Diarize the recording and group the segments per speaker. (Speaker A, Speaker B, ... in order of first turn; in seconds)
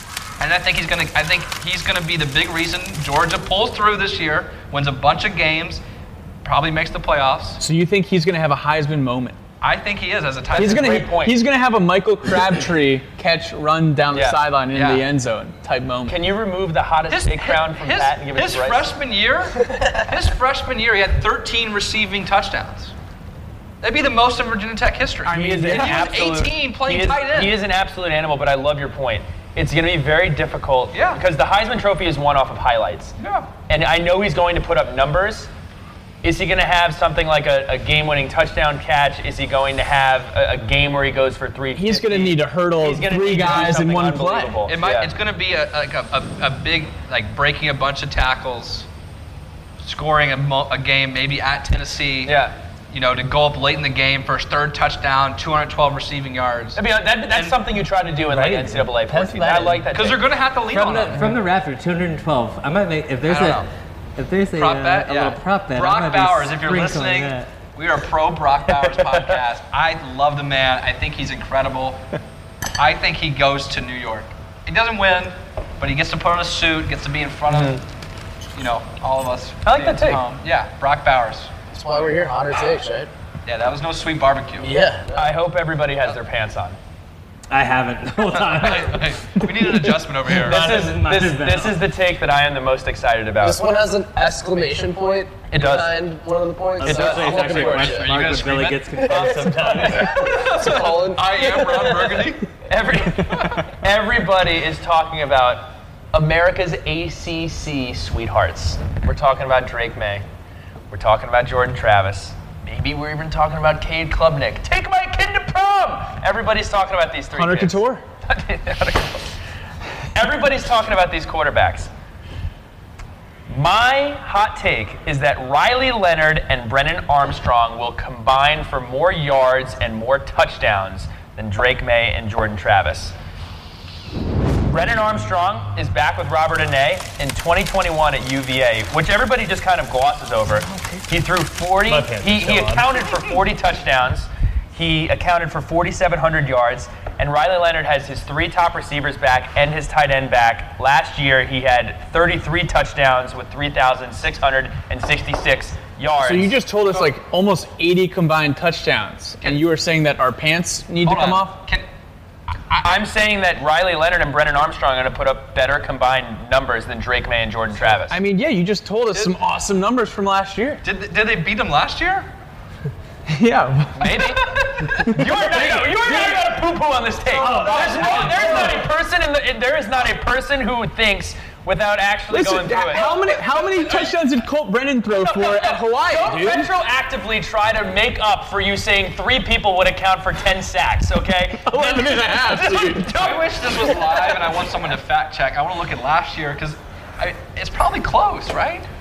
Speaker A: 0.4-5.8, 6.4-7.6, 9.6-11.1, 14.7-15.1, 17.1-22.9, 23.8-27.6, 30.9-31.2, 33.2-33.5, 43.4-43.7, 44.6-48.9, 49.8-52.4, 52.9-57.6, 59.9-61.4, 63.3-63.7, 64.5-72.0, 72.8-77.8, 78.5-81.7, 83.5-84.8, 88.3-90.7, 97.2-99.4, 100.0-102.5, 103.2-103.7, 161.0-161.9, 170.8-172.3, 174.2-175.0, 177.7-178.5, 193.1-198.9
Speaker B: 7.6-9.4, 10.6-16.2, 25.3-26.2, 41.7-44.6, 117.3-118.0, 156.2-161.6, 168.1-170.8, 173.3-174.4, 175.0-175.3, 177.4-178.7, 182.3-186.7, 191.6-193.1
Speaker C: 10.5-11.4, 16.1-18.9, 25.3-33.2, 33.7-35.5, 36.2-45.1, 52.2-52.5, 56.8-60.3, 77.5-77.8, 79.7-80.2, 85.1-86.8, 90.3-93.7, 95.5-96.0, 96.8-97.4, 99.5-99.9, 102.7-110.2, 110.9-119.3, 120.1-121.9, 123.5-133.2, 134.7-156.6, 162.7-168.2, 174.0-183.2, 185.2-194.3
Speaker D: 58.3-59.9, 60.7-67.5, 87.5-89.0, 90.3-91.8, 96.8-100.3, 140.7-141.0, 141.9-142.9, 175.7-176.6, 177.3-178.9
Speaker E: 81.7-83.1, 84.6-85.3, 93.4-98.1, 99.0-102.2